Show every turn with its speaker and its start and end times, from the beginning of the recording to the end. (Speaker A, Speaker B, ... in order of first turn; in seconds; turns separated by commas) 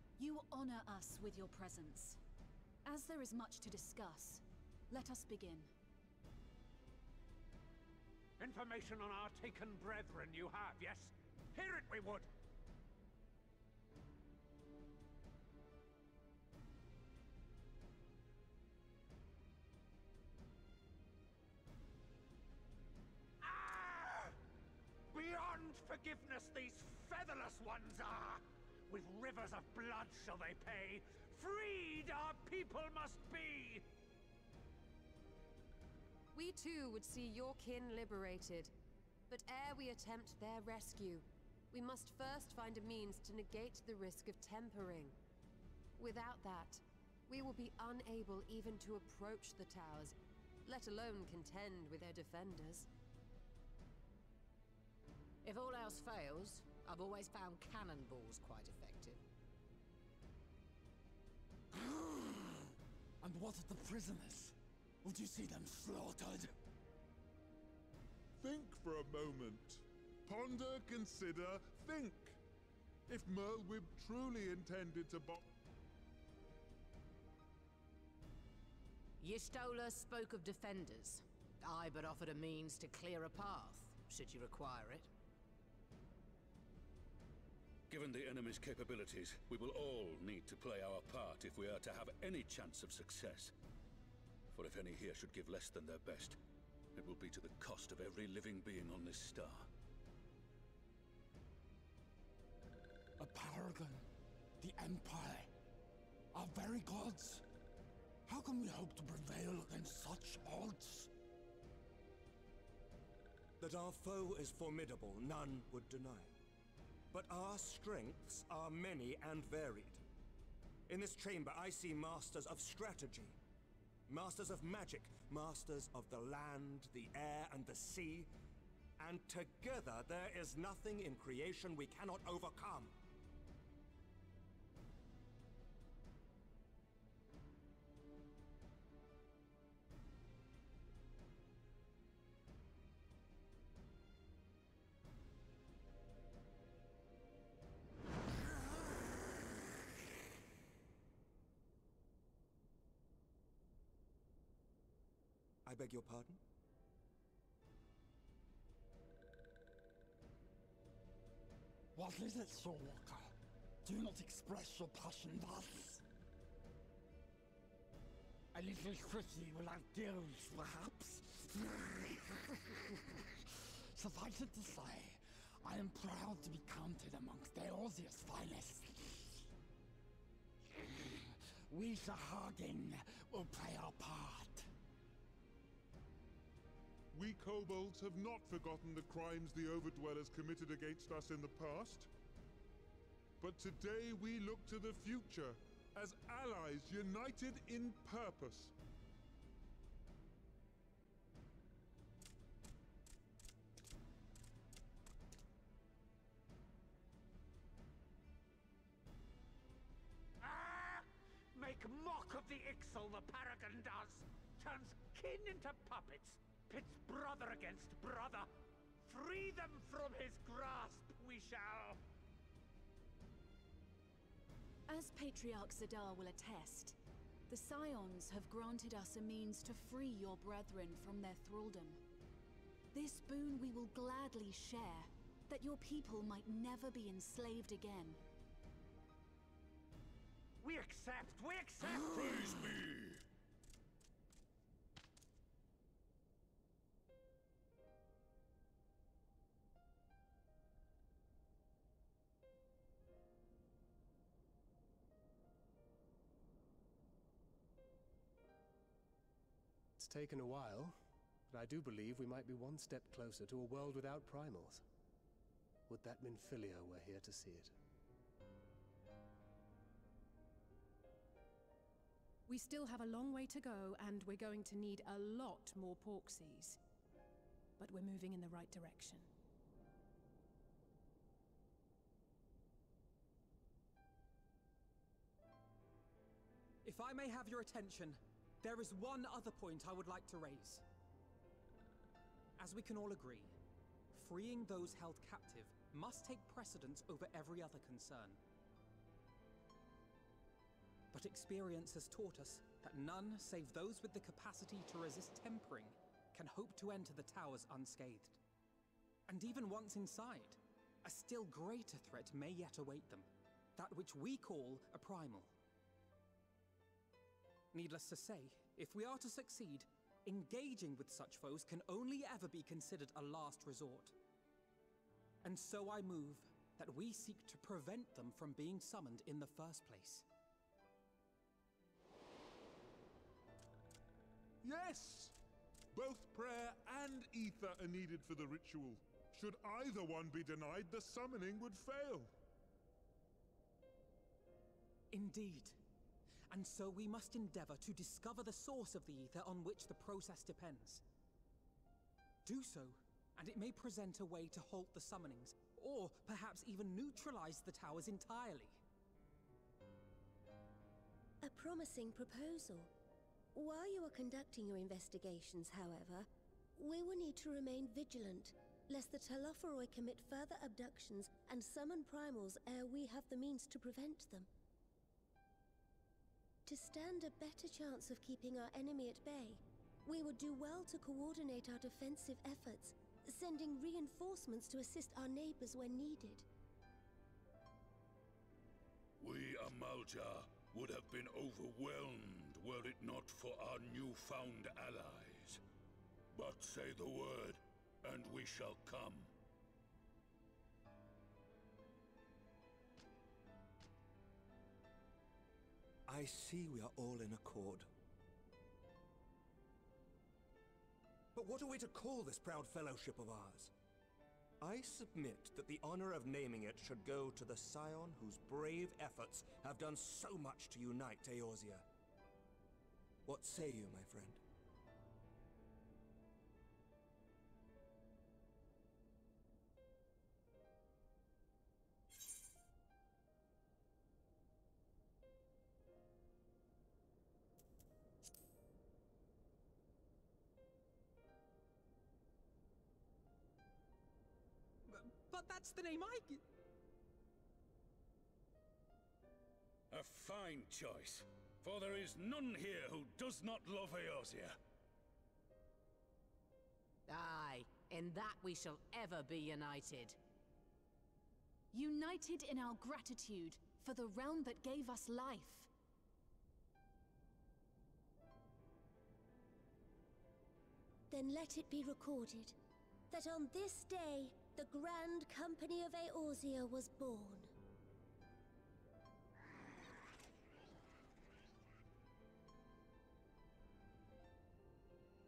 Speaker A: 0.2-2.2, Speaker A: 2.9-5.7, Speaker B: 8.4-12.3, Speaker B: 23.4-24.4, Speaker B: 25.1-33.9, Speaker C: 36.3-38.7, Speaker C: 39.3-45.2, Speaker C: 46.0-52.9, Speaker D: 55.4-59.2, Speaker E: 61.7-66.5, Speaker F: 68.4-72.4, Speaker F: 73.1-75.5, Speaker D: 79.2-85.1, Speaker G: 87.9-93.5, Speaker G: 94.5-96.4, Speaker G: 97.0-99.7, Speaker E: 103.2-104.1, Speaker E: 104.6-105.5, Speaker E: 106.3-107.4, Speaker E: 108.3-111.1, Speaker H: 113.6-116.3, Speaker H: 117.1-120.0, Speaker H: 120.9-123.4, Speaker H: 124.1-128.3, Speaker H: 129.0-132.9, Speaker H: 155.7-156.4, Speaker E: 161.9-166.0, Speaker E: 168.5-179.5, Speaker E: 180.7-184.7, Speaker F: 187.1-192.1, Speaker F: 193.4-198.7, Speaker B: 210.4-218.5, Speaker B: 219.0-222.0, Speaker A: 224.9-226.9, Speaker A: 227.5-232.0, Speaker A: 232.9-238.2, Speaker B: 240.6-242.8, Speaker G: 242.1-243.2, Speaker I: 260.0-261.0, Speaker I: 261.5-264.8, Speaker I: 265.9-267.7, Speaker J: 272.5-276.8, Speaker J: 277.8-279.3, Speaker K: 286.8-290.8, Speaker K: 292.6-293.5, Speaker K: 294.1-298.4, Speaker K: 301.1-308.4, Speaker K: 309.3-315.5, Speaker K: 317.7-324.1, Speaker K: 325.4-330.2, Speaker F: 334.6-335.4, Speaker F: 335.9-342.3, Speaker K: 345.1-345.8, Speaker K: 346.5-351.0, Speaker K: 352.4-358.8, Speaker L: 361.4-362.9, Speaker L: 363.5-374.5, Speaker L: 376.6-386.4, Speaker G: 389.2-395.6, Speaker G: 396.3-399.3, Speaker H: 406.1-407.9, Speaker H: 411.3-413.7, Speaker H: 414.6-421.8, Speaker H: 423.2-424.4, Speaker K: 444.9-446.4, Speaker G: 449.9-454.6, Speaker D: 457.1-460.2, Speaker A: 461.7-465.7, Speaker L: 471.1-472.5, Speaker L: 473.1-477.5